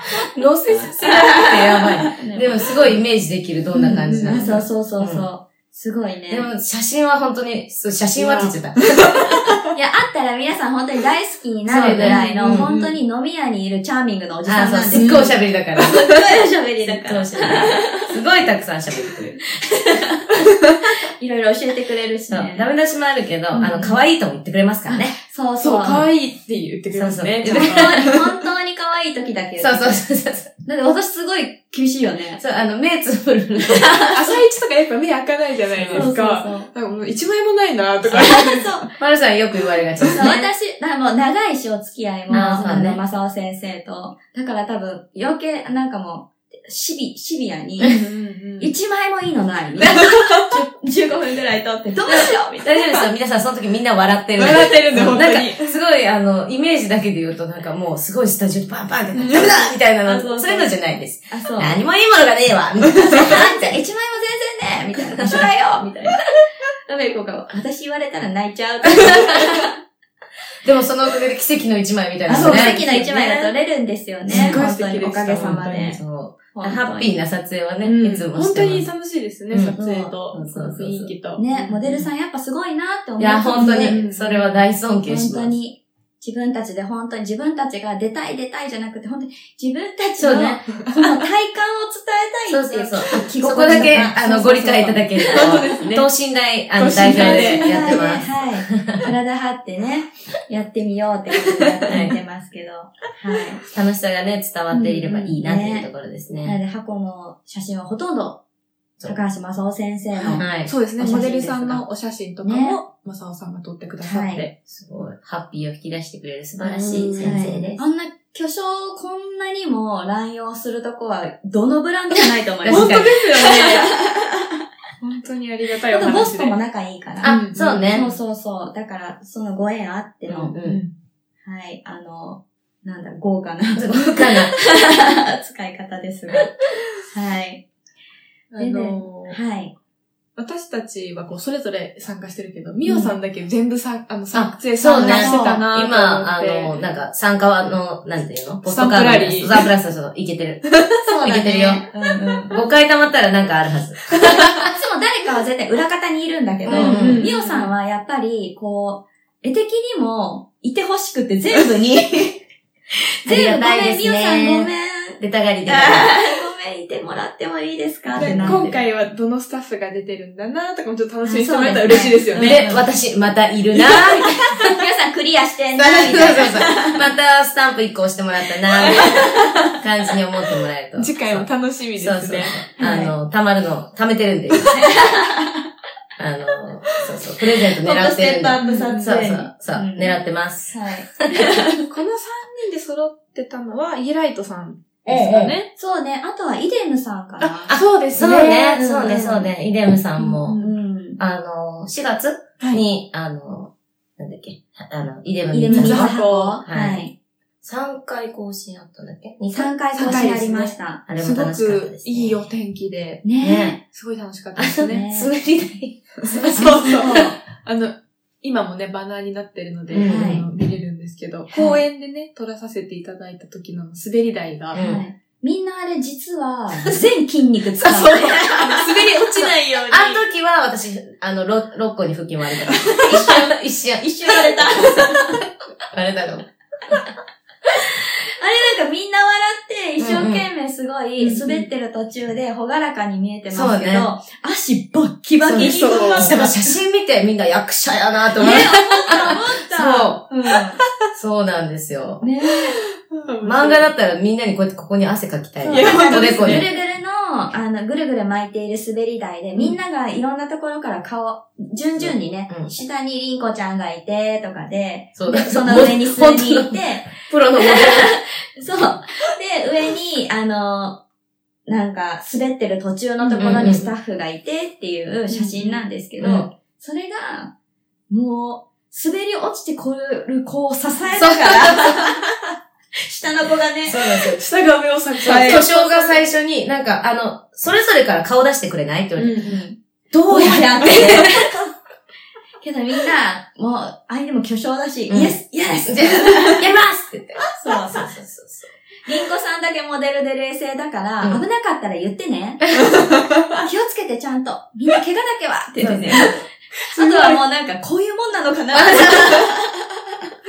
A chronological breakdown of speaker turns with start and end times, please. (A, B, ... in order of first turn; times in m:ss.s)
0:00.3-0:05.3 A
0:01.0-0:02.9 B
0:03.7-0:04.6 C
0:04.2-0:06.5 B
0:06.3-0:09.5 A
0:08.2-0:09.5 C
0:09.7-0:18.1 B
0:11.7-0:12.7 A
0:12.0-0:13.0 C
0:14.4-0:16.1 A
0:14.9-0:15.4 C
0:16.8-0:19.4 A
0:19.6-0:20.6 B
0:21.2-0:22.7 B
0:22.3-0:25.2 A
0:23.5-0:24.0 C
0:24.9-0:26.1 B
0:25.6-0:28.3 C
0:26.9-0:28.1 A
0:27.4-0:30.0 B
0:29.6-0:30.5 A
0:30.6-0:32.4 B
0:32.4-0:34.0 A
0:33.7-0:34.2 B
0:34.1-0:38.9 C
0:35.7-0:36.1 A
0:35.9-0:36.7 B
0:38.1-0:38.9 B
0:39.0-0:40.5 A
0:40.0-0:40.3 C
0:40.1-0:48.0 B
0:42.3-0:43.0 A
0:47.9-0:48.7 C
0:48.6-0:53.0 B
0:50.0-0:50.5 C
0:52.1-1:03.8 A
0:54.4-0:55.7 C
0:59.2-0:59.6 C
1:00.0-1:00.8 B
1:01.3-1:01.8 B
1:03.1-1:06.2 B
1:05.2-1:05.4 A
1:06.9-1:09.7 B
1:09.1-1:09.4 A
1:10.6-1:13.5 A
1:12.3-1:16.0 B
1:12.3-1:12.9 C
1:14.3-1:14.6 A
1:14.3-1:16.0 C
1:15.4-1:18.9 A
1:16.5-1:17.2 B
1:17.8-1:22.1 C
1:19.5-1:19.8 A
1:19.8-1:20.1 B
1:20.3-1:21.1 A
1:21.4-1:24.0 B
1:23.2-1:25.5 A
1:23.6-1:24.6 C
1:25.1-1:35.8 B
1:30.2-1:30.6 A
1:32.5-1:39.1 A
1:35.3-1:36.1 C
1:36.8-1:38.2 C
1:37.0-1:43.6 B
1:41.9-1:42.2 A
1:43.7-1:46.6 A
1:44.7-1:45.3 C
1:45.3-1:45.9 B
1:46.4-1:48.4 B
1:49.0-1:50.5 B
1:50.2-1:54.6 C
1:50.4-1:50.8 A
1:51.0-1:51.8 B
1:52.4-1:52.8 B
1:54.0-1:54.5 B
1:54.7-1:57.9 A
1:56.6-1:57.5 C
1:56.9-2:04.5 B
2:02.6-2:03.1 A
2:02.7-2:03.9 C
2:05.0-2:06.6 C
2:05.9-2:10.6 B
2:07.2-2:08.1 A
2:07.2-2:08.1 C
2:10.3-2:10.8 A
2:10.6-2:10.9 C
2:11.4-2:16.5 B
2:13.7-2:14.6 A
2:17.1-2:17.6 B
2:18.5-2:19.4 C
2:18.6-2:19.8 B
2:20.4-2:26.8 C
2:22.9-2:23.2 B
2:24.3-2:31.8 A
2:24.9-2:25.6 B
2:28.7-2:29.7 C
2:31.0-2:32.6 B
2:32.5-2:34.7 A
2:34.3-2:42.4 B
2:36.7-2:37.3 A
2:36.7-2:37.7 C
2:43.2-2:48.8 B
2:43.3-2:46.2 A
2:48.1-2:48.8 A
2:48.2-2:52.7 C
2:51.2-2:52.8 B
2:52.4-2:54.7 A
2:54.5-2:57.0 B
2:55.8-3:05.0 A
2:58.8-2:59.6 B
3:01.0-3:03.0 C
3:02.8-3:03.1 B
3:04.7-3:05.6 B
3:06.2-3:11.3 A
3:07.8-3:10.2 B
3:08.6-3:09.2 C
3:10.7-3:11.8 B
3:11.8-3:15.7 C
3:15.1-3:15.6 A
3:15.8-3:17.7 B
3:17.4-3:19.3 C
3:17.7-3:20.6 A
3:18.2-3:19.5 B
3:20.2-3:20.7 C
3:20.6-3:21.2 B
3:21.2-3:27.1 A
3:25.5-3:27.1 B
3:25.7-3:26.6 C
3:27.6-3:30.3 A
3:29.5-3:31.0 B
3:29.9-3:33.3 C
3:31.1-3:32.5 A
3:33.2-3:33.8 B
3:33.4-3:33.8 A
3:33.8-3:35.1 C
3:34.6-3:37.3 A
3:34.8-3:35.3 B
3:36.2-3:44.9 C
3:36.6-3:37.4 B
3:39.9-3:40.4 A
3:40.0-3:40.5 B
3:41.5-3:41.8 B
3:44.7-3:45.0 A
3:44.8-3:49.2 B
3:47.8-3:50.2 C
3:49.9-3:55.2 A
3:53.0-3:55.4 B
3:55.9-3:57.0 A
3:58.4-4:06.6 B
4:00.0-4:00.4 A
4:01.2-4:01.7 C
4:03.5-4:04.1 A
4:05.4-4:10.2 A
4:05.6-4:06.5 C
4:08.4-4:10.8 B
4:11.1-4:12.2 A
4:12.2-4:12.8 B
4:13.1-4:13.9 C
4:13.4-4:16.7 A
4:15.6-4:16.7 C
4:15.7-4:31.0 B
4:22.0-4:22.7 A
4:25.2-4:28.1 A
4:31.7-4:37.5 B
4:33.2-4:33.9 C
4:33.4-4:33.9 A
4:35.3-4:35.8 C
4:36.2-4:36.5 A
4:38.1-4:42.2 B
4:41.2-4:42.0 A
4:43.0-4:44.2 B
4:43.8-4:44.4 A
4:44.2-4:46.2 C
4:45.2-4:49.6 A
4:45.2-4:45.7 B
4:49.2-4:49.6 C
4:49.4-4:51.6 B
4:50.1-4:51.3 A
4:50.8-4:51.2 C
4:52.6-4:56.7 B
4:55.1-4:58.7 A
4:57.5-4:58.1 B
4:59.0-5:06.4 B
5:02.9-5:03.4 C
5:05.8-5:06.3 A
5:06.9-5:07.4 C
5:06.9-5:09.8 B
5:08.8-5:09.2 A